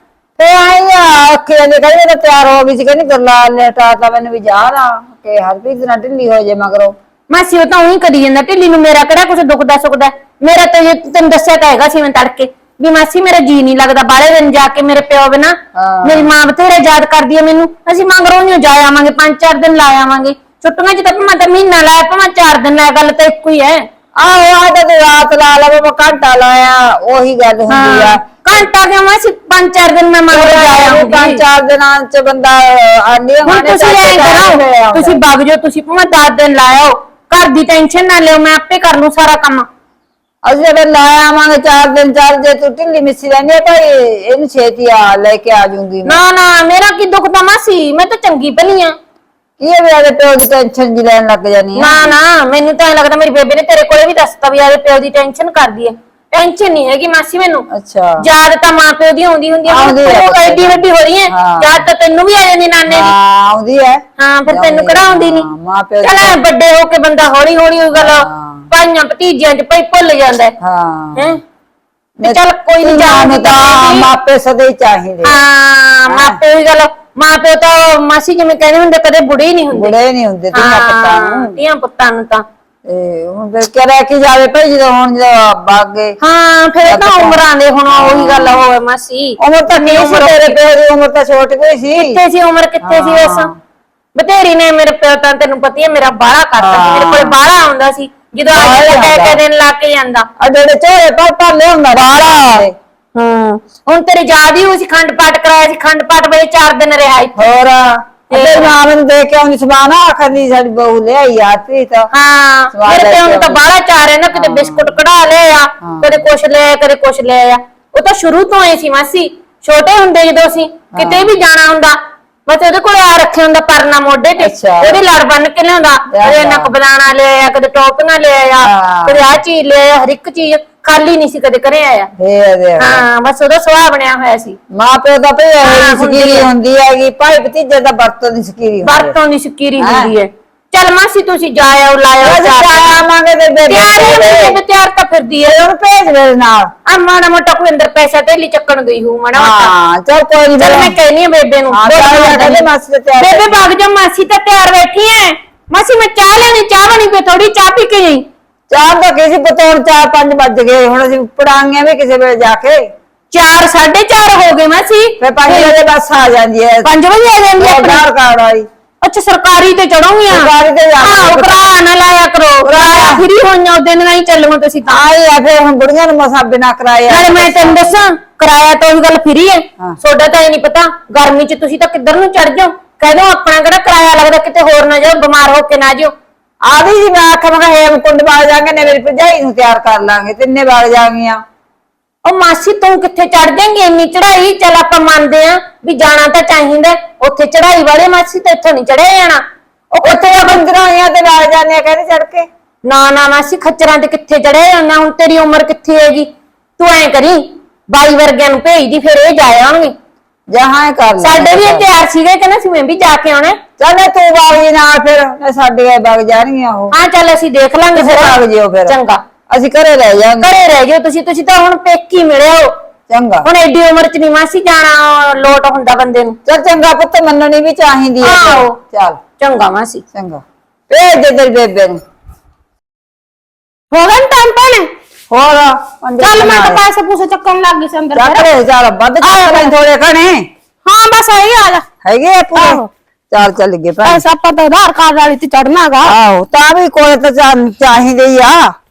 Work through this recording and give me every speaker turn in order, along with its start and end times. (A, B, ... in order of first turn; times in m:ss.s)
0:00.4-0:07.0 A
0:07.3-0:23.9 B
0:15.8-0:16.3 A
0:24.2-0:28.3 A
0:27.7-0:31.4 B
0:30.3-0:35.2 A
0:33.5-0:39.7 B
0:40.4-0:46.2 A
0:46.1-0:49.0 B
0:49.6-0:52.1 A
0:51.8-0:57.7 B
0:57.7-0:58.3 A
0:58.2-1:03.1 B
0:59.7-1:01.8 A
1:02.9-1:06.4 A
1:04.2-1:05.5 B
1:06.0-1:10.6 B
1:08.0-1:08.7 A
1:10.6-1:11.4 A
1:11.2-1:11.4 B
1:12.2-1:15.4 A
1:12.2-1:14.1 B
1:15.2-1:19.9 B
1:16.1-1:16.4 A
1:19.7-1:21.6 A
1:20.5-1:22.4 B
1:22.9-1:26.2 A
1:26.2-1:30.6 B
1:26.8-1:28.6 A
1:29.4-1:32.2 A
1:32.0-1:33.5 B
1:32.8-1:33.5 A
1:34.2-1:40.3 B
1:36.6-1:37.4 A
1:38.5-1:39.4 A
1:40.4-1:42.7 A
1:43.2-1:47.4 B
1:47.4-1:52.1 A
1:48.3-1:48.7 B
1:52.1-2:12.1 B
1:52.7-1:53.6 A
1:54.3-1:54.9 A
1:55.8-1:56.2 A
2:01.0-2:01.3 A
2:04.4-2:05.0 A
2:06.1-2:06.7 A
2:08.6-2:09.2 A
2:12.2-2:13.0 A
2:12.8-2:14.6 B
2:14.7-2:19.2 A
2:15.6-2:16.5 B
2:18.8-2:23.0 B
2:19.8-2:20.1 A
2:22.2-2:24.6 A
2:23.7-2:25.6 B
2:25.5-2:26.7 A
2:26.9-2:29.7 B
2:29.3-2:31.0 A
2:30.6-2:32.7 B
2:31.7-2:33.5 A
2:33.2-2:38.2 B
2:38.7-2:42.8 A
2:43.3-2:45.7 B
2:45.2-2:46.9 A
2:46.8-2:48.0 B
2:47.6-2:48.7 A
2:49.0-2:55.0 B
2:50.3-2:51.6 A
2:52.6-2:53.3 A
2:54.9-2:58.0 A
2:57.1-3:06.1 B
3:06.6-3:11.4 A
3:12.2-3:19.4 B
3:20.0-3:20.6 B
3:20.0-3:22.5 A
3:22.8-3:29.9 B
3:30.5-3:31.9 A
3:31.2-3:33.6 B
3:33.8-3:36.9 A
3:36.9-3:39.2 B
3:38.0-3:39.0 A
3:39.5-3:40.5 A
3:40.4-3:42.7 B
3:43.1-3:43.5 A
3:43.4-3:46.4 B
3:46.5-3:49.2 A
3:48.2-3:48.8 B
3:49.4-3:50.0 B
3:50.1-3:52.0 A
3:53.9-3:54.9 C
3:55.3-3:56.8 A
3:56.2-3:58.5 C
3:58.2-4:00.5 A
3:59.2-3:59.7 C
4:00.8-4:01.8 C
4:02.0-4:04.2 A
4:02.6-4:02.9 C
4:04.0-4:06.1 C
4:06.0-4:08.7 A